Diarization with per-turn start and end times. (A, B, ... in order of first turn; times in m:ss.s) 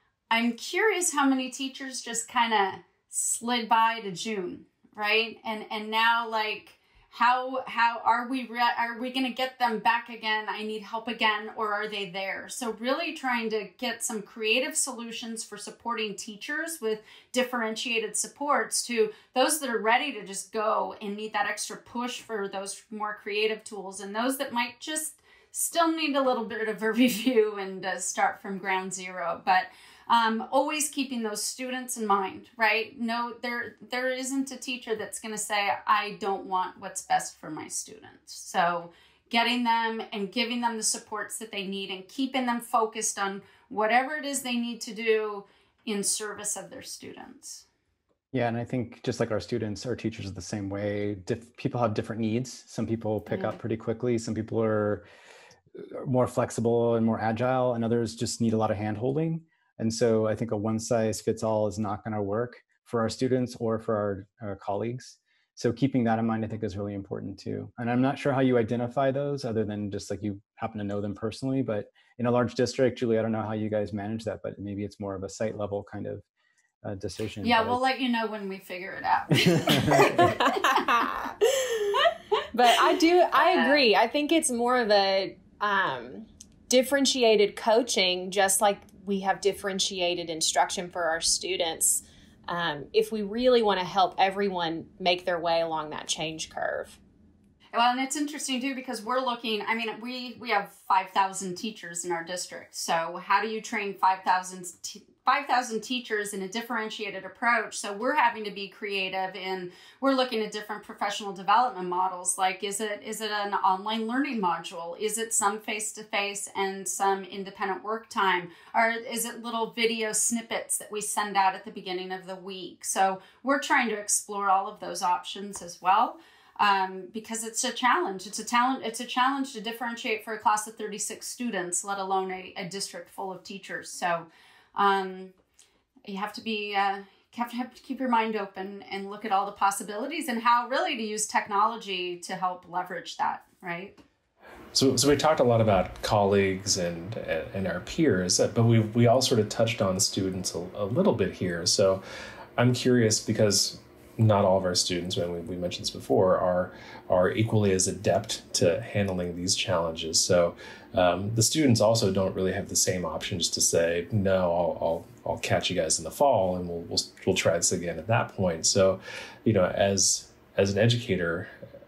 0:00.3-0:47.6 A
0:48.3-0:55.0 B
0:53.3-0:53.6 A
0:55.8-1:16.2 B
1:16.8-1:17.8 B
1:17.4-1:20.8 A
1:19.3-1:20.4 B
1:20.5-1:22.0 C
1:22.5-1:37.0 C
1:23.3-1:23.8 A
1:37.7-2:15.3 A
2:16.0-2:24.0 A
2:24.7-2:32.0 D
2:32.6-2:51.5 D